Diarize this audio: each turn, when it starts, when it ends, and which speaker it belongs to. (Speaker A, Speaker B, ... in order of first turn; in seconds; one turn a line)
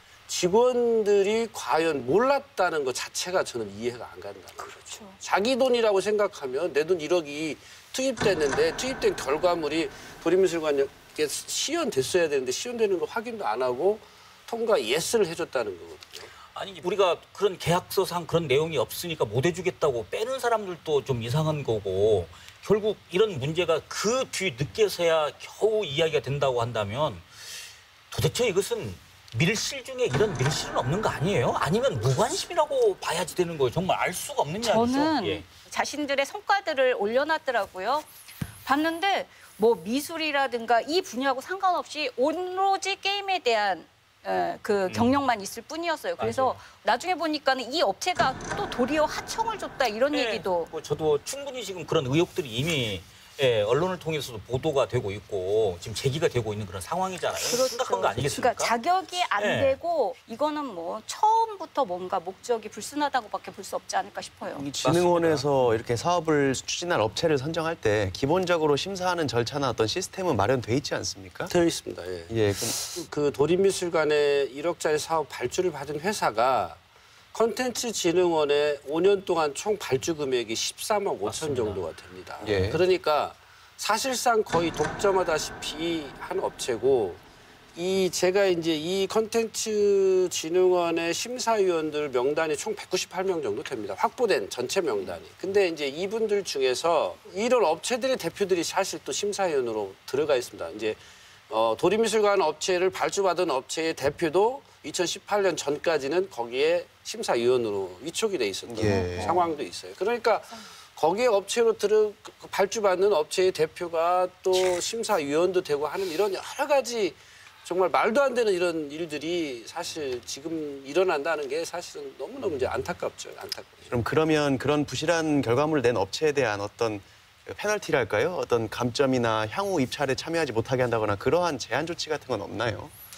Speaker A: 0.3-16.3
Speaker B: 4.6-5.2
Speaker C: 16.5-27.3
Speaker C: 28.1-35.5
Speaker B: 34.6-38.1
Speaker B: 38.6-50.7
Speaker C: 44.9-45.2
Speaker C: 46.2-46.6
Speaker C: 50.1-58.8
Speaker B: 57.4-64.7
Speaker C: 59.3-59.8
Speaker D: 64.5-71.5
Speaker C: 64.8-65.4
Speaker A: 71.5-76.8
Speaker D: 72.3-72.8
Speaker A: 77.3-87.2
Speaker D: 82.4-82.8
Speaker A: 87.8-101.0
Speaker A: 101.5-123.9
Speaker D: 108.6-109.5
Speaker D: 123.9-132.9